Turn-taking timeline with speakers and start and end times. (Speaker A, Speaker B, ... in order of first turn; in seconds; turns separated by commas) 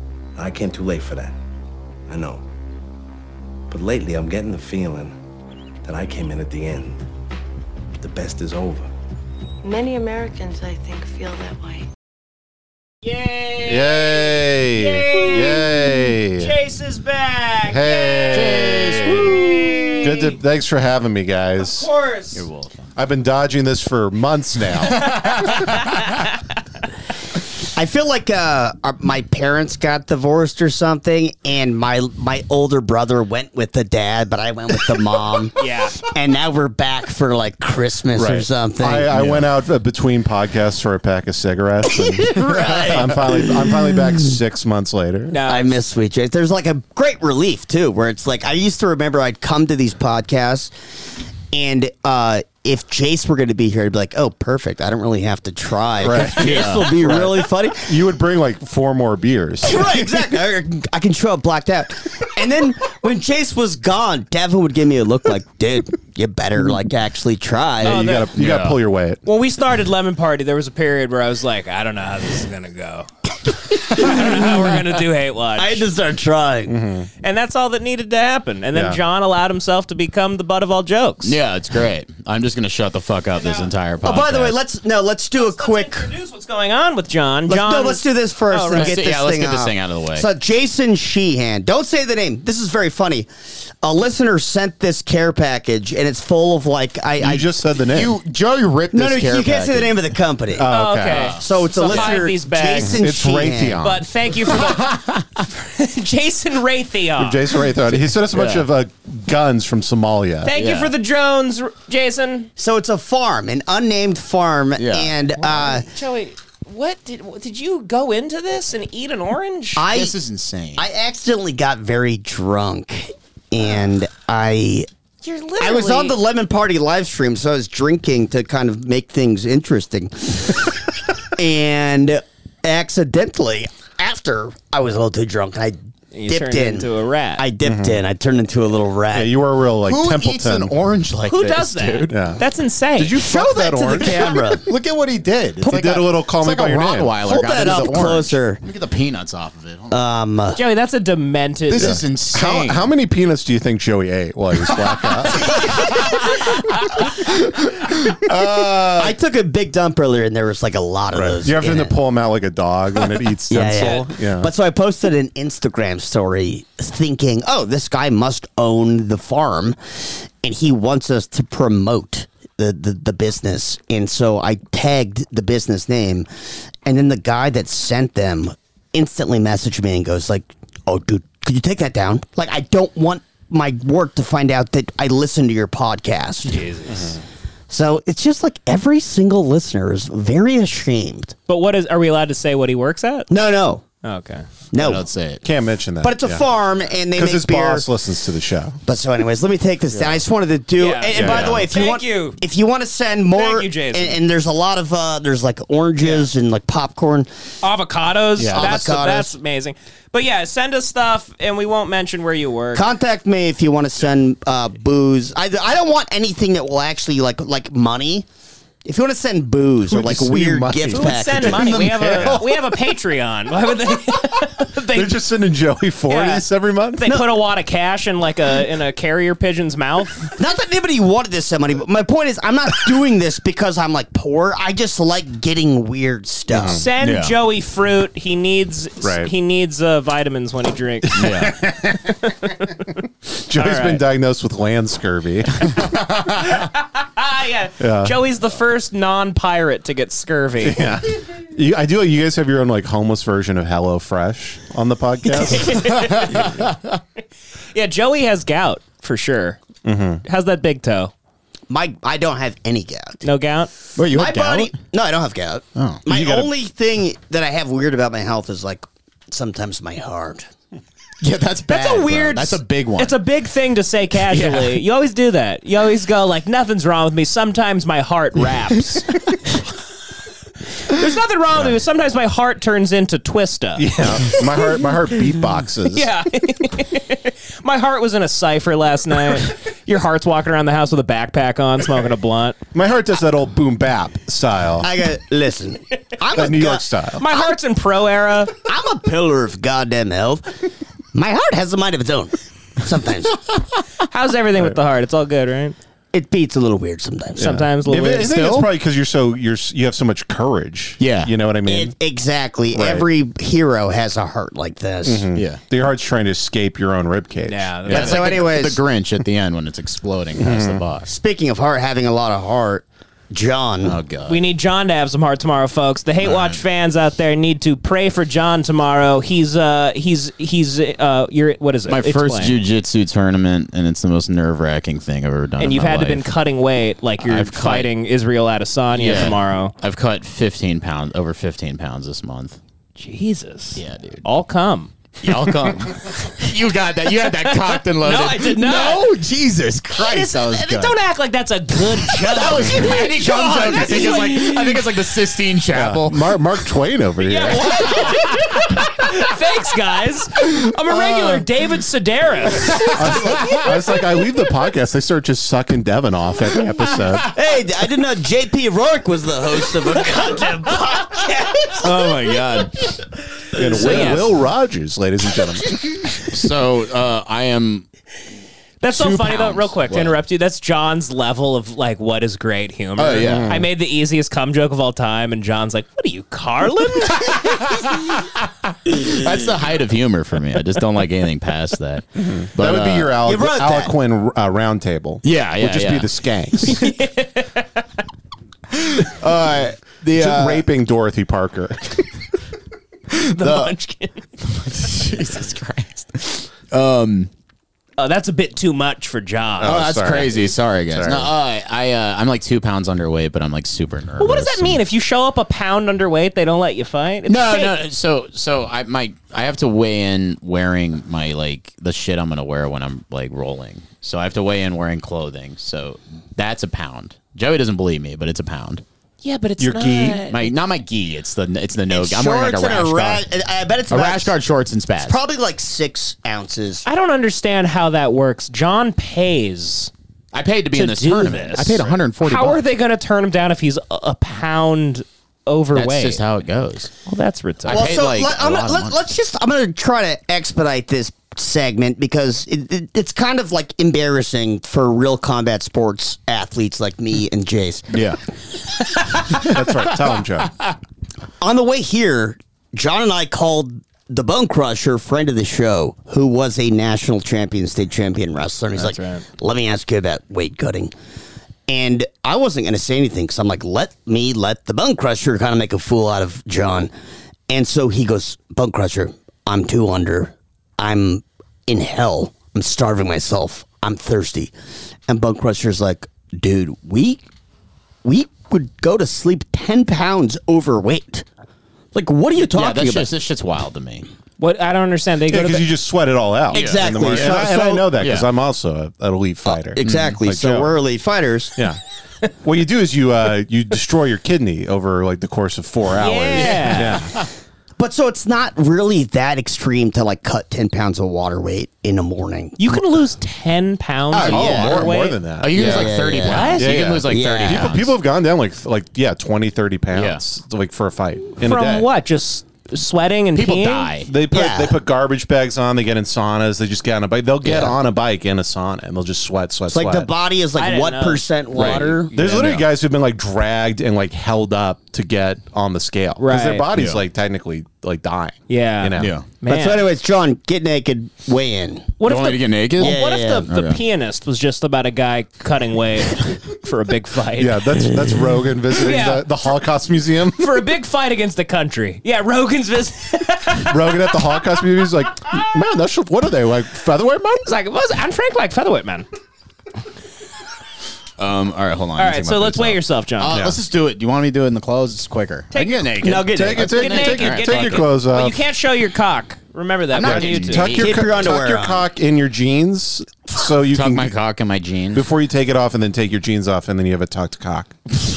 Speaker A: 0.3-1.4, Speaker A: 2.1-2.4, Speaker A: 3.7-5.1, Speaker A: 5.8-7.0, Speaker A: 8.0-8.9, Speaker B: 9.6-11.8, Speaker C: 13.0-15.6, Speaker D: 13.6-16.5, Speaker C: 16.4-20.4, Speaker D: 17.6-19.5, Speaker E: 18.3-19.3, Speaker D: 20.0-21.9, Speaker C: 21.6-22.4, Speaker E: 22.3-22.9, Speaker D: 22.9-25.2, Speaker E: 25.0-25.9, Speaker C: 25.0-26.2, Speaker F: 27.7-39.1, Speaker C: 35.5-36.0, Speaker D: 38.1-45.4, Speaker E: 39.2-39.4, Speaker F: 42.0-43.7, Speaker E: 42.4-43.0, Speaker C: 45.3-45.8, Speaker F: 45.5-50.7, Speaker F: 51.5-57.9, Speaker D: 56.0-60.4, Speaker E: 56.1-57.1, Speaker F: 59.6-68.0, Speaker D: 67.8-69.2, Speaker C: 67.8-68.3, Speaker E: 68.4-68.8, Speaker C: 69.2-73.1, Speaker C: 73.7-75.8, Speaker F: 75.5-76.7, Speaker D: 76.7-77.1, Speaker C: 77.2-81.4, Speaker D: 78.7-79.0, Speaker E: 81.2-84.6, Speaker C: 83.3-83.7, Speaker F: 84.0-86.1, Speaker C: 85.3-89.0, Speaker F: 87.5-93.3, Speaker E: 88.7-90.3, Speaker F: 93.8-97.5, Speaker D: 97.2-98.2, Speaker E: 97.9-100.0, Speaker F: 98.9-100.7, Speaker D: 100.5-101.3, Speaker C: 100.7-103.0, Speaker E: 101.1-102.2, Speaker F: 101.4-103.8, Speaker D: 102.8-104.0, Speaker C: 103.8-107.4, Speaker E: 104.5-105.2, Speaker D: 107.2-110.5, Speaker E: 108.3-108.7, Speaker C: 110.4-112.5, Speaker E: 110.5-110.9, Speaker F: 112.6-115.9, Speaker E: 114.8-115.1, Speaker C: 115.4-119.8, Speaker F: 119.8-120.1, Speaker E: 119.9-120.8, Speaker F: 120.8-124.9, Speaker C: 125.2-126.2, Speaker F: 125.6-130.8, Speaker F: 131.3-139.3, Speaker C: 136.1-137.4, Speaker D: 137.6-138.0, Speaker D: 139.1-140.7, Speaker E: 139.8-142.2, Speaker C: 141.3-143.4, Speaker D: 142.1-142.4, Speaker D: 142.9-144.5, Speaker F: 143.2-144.7, Speaker E: 144.3-150.0, Speaker F: 145.6-145.9, Speaker D: 145.6-147.1, Speaker F: 147.2-148.6, Speaker F: 149.9-150.6, Speaker C: 150.5-152.0, Speaker E: 151.7-152.9, Speaker D: 151.8-156.0, Speaker E: 155.8-156.0, Speaker D: 158.2-159.1, Speaker E: 158.5-159.1, Speaker F: 158.9-161.9, Speaker D: 161.3-164.5, Speaker F: 163.5-176.3, Speaker F: 176.8-186.6, Speaker C: 186.4-187.2, Speaker F: 187.7-191.3, Speaker C: 191.5-193.3, Speaker F: 193.3-193.8, Speaker C: 194.0-194.4, Speaker F: 194.7-195.0, Speaker E: 194.8-195.4, Speaker D: 195.4-196.4, Speaker F: 196.0-197.8, Speaker D: 197.1-198.8, Speaker F: 198.8-207.3, Speaker E: 199.9-200.2, Speaker C: 200.8-202.4, Speaker D: 201.1-201.6, Speaker E: 201.2-201.5, Speaker C: 203.3-204.2, Speaker C: 206.0-206.3, Speaker C: 207.6-212.8, Speaker D: 208.4-208.8, Speaker F: 208.5-209.3, Speaker F: 212.7-218.2, Speaker F: 218.8-222.4, Speaker D: 219.8-222.5, Speaker C: 220.9-225.2, Speaker D: 224.9-227.1, Speaker C: 226.1-230.3, Speaker F: 230.4-236.8, Speaker D: 236.5-236.8, Speaker C: 236.7-241.2, Speaker E: 237.0-237.3, Speaker D: 239.0-239.3, Speaker D: 241.0-242.5, Speaker E: 241.1-241.5, Speaker D: 243.4-245.9, Speaker C: 243.5-244.0, Speaker C: 246.4-250.9, Speaker D: 247.8-248.2, Speaker D: 250.6-256.1, Speaker C: 255.3-256.6, Speaker E: 255.8-257.0, Speaker C: 257.7-259.6, Speaker D: 259.8-260.2, Speaker C: 260.2-261.1, Speaker F: 261.7-263.2, Speaker C: 263.2-263.7, Speaker E: 263.9-264.7, Speaker F: 264.1-270.5, Speaker E: 265.8-266.0, Speaker D: 266.1-266.5, Speaker E: 271.2-273.2, Speaker C: 271.7-279.1, Speaker E: 274.3-274.8, Speaker C: 280.9-284.4, Speaker D: 283.8-286.1, Speaker C: 285.9-292.6, Speaker D: 292.7-294.9, Speaker F: 294.8-297.5, Speaker D: 296.3-297.3, Speaker C: 297.2-298.5, Speaker F: 298.6-300.6, Speaker F: 301.1-303.4, Speaker C: 304.0-305.8, Speaker F: 306.1-307.6, Speaker D: 307.4-311.9, Speaker C: 307.4-308.6, Speaker E: 311.0-311.3, Speaker F: 311.6-315.3, Speaker D: 312.7-313.1, Speaker D: 315.0-318.4, Speaker E: 315.3-315.6, Speaker C: 317.5-318.4, Speaker E: 317.9-321.1, Speaker F: 317.9-318.8, Speaker D: 320.4-320.8, Speaker F: 321.1-324.0, Speaker E: 323.8-324.4, Speaker C: 324.3-332.6, Speaker E: 326.2-326.6, Speaker E: 331.9-336.3, Speaker C: 335.6-339.7, Speaker E: 337.2-337.9, Speaker E: 338.9-342.6, Speaker C: 342.9-345.5, Speaker E: 343.8-344.2, Speaker E: 345.2-350.9, Speaker C: 347.4-349.1, Speaker C: 349.9-354.8, Speaker E: 352.0-356.4, Speaker D: 355.7-358.1, Speaker C: 357.2-363.6, Speaker E: 362.7-363.5, Speaker D: 362.9-367.3, Speaker F: 367.3-372.4, Speaker E: 371.8-372.9, Speaker D: 373.5-376.2, Speaker C: 373.8-374.3, Speaker E: 373.8-374.2, Speaker E: 376.1-377.9, Speaker C: 378.8-387.5, Speaker E: 378.9-380.2, Speaker E: 383.0-383.5, Speaker D: 383.2-383.7, Speaker E: 387.2-393.2, Speaker D: 392.2-396.9, Speaker F: 393.2-393.9, Speaker E: 395.2-396.1, Speaker C: 396.6-397.8, Speaker E: 398.7-400.6, Speaker D: 400.1-402.1, Speaker E: 403.1-403.7, Speaker C: 403.3-404.2, Speaker E: 404.4-407.3, Speaker C: 408.0-409.9, Speaker D: 409.6-411.3, Speaker E: 409.6-414.8, Speaker C: 414.2-417.8, Speaker E: 417.3-428.8, Speaker C: 429.2-430.5, Speaker D: 429.6-430.2, Speaker E: 430.3-433.2, Speaker F: 431.9-434.4, Speaker E: 433.9-435.2, Speaker F: 435.0-436.8, Speaker C: 436.8-439.9, Speaker E: 440.3-442.6, Speaker C: 440.7-446.2, Speaker E: 445.7-446.9, Speaker C: 447.1-448.0, Speaker E: 447.6-449.0, Speaker F: 447.6-458.1, Speaker E: 457.9-458.2, Speaker D: 459.3-460.5, Speaker F: 461.4-470.9, Speaker C: 468.7-469.2, Speaker F: 471.7-476.9, Speaker F: 477.5-484.5, Speaker F: 485.1-487.2, Speaker F: 488.0-491.2, Speaker F: 491.9-493.1, Speaker E: 492.4-494.1, Speaker C: 494.4-495.7, Speaker D: 495.3-500.7, Speaker F: 496.5-497.9, Speaker E: 496.5-498.2, Speaker F: 499.4-501.5, Speaker E: 499.8-500.2, Speaker D: 502.4-507.1, Speaker C: 506.0-507.0, Speaker E: 506.5-507.2, Speaker F: 507.8-512.6, Speaker C: 512.6-515.2, Speaker F: 514.1-514.9, Speaker E: 514.2-514.6, Speaker D: 514.2-515.9, Speaker E: 515.4-517.9, Speaker F: 515.5-517.7, Speaker C: 516.2-516.6, Speaker D: 516.6-521.9, Speaker E: 519.9-520.2, Speaker C: 521.4-523.9, Speaker E: 523.3-524.1, Speaker D: 524.0-530.1, Speaker F: 524.3-524.8, Speaker F: 527.4-527.7, Speaker F: 529.7-532.1, Speaker C: 530.6-531.8, Speaker D: 531.5-539.1, Speaker E: 531.5-532.6, Speaker C: 536.2-536.6, Speaker E: 536.7-537.0, Speaker C: 538.5-539.9, Speaker E: 539.0-539.3, Speaker F: 539.4-541.9, Speaker C: 542.0-547.6, Speaker E: 542.0-543.0, Speaker F: 542.8-543.5, Speaker E: 543.5-543.8, Speaker D: 547.4-550.7, Speaker C: 548.8-549.2, Speaker C: 550.4-554.1, Speaker D: 553.6-557.5, Speaker C: 557.4-559.0, Speaker E: 561.2-566.3, Speaker C: 562.0-563.4, Speaker D: 563.3-563.6, Speaker C: 565.5-565.9, Speaker F: 566.0-567.0, Speaker D: 566.3-568.4, Speaker C: 566.5-570.6, Speaker E: 566.8-567.8, Speaker E: 569.9-571.6, Speaker D: 570.0-574.1, Speaker F: 570.8-571.8, Speaker E: 573.7-575.1, Speaker D: 574.9-577.8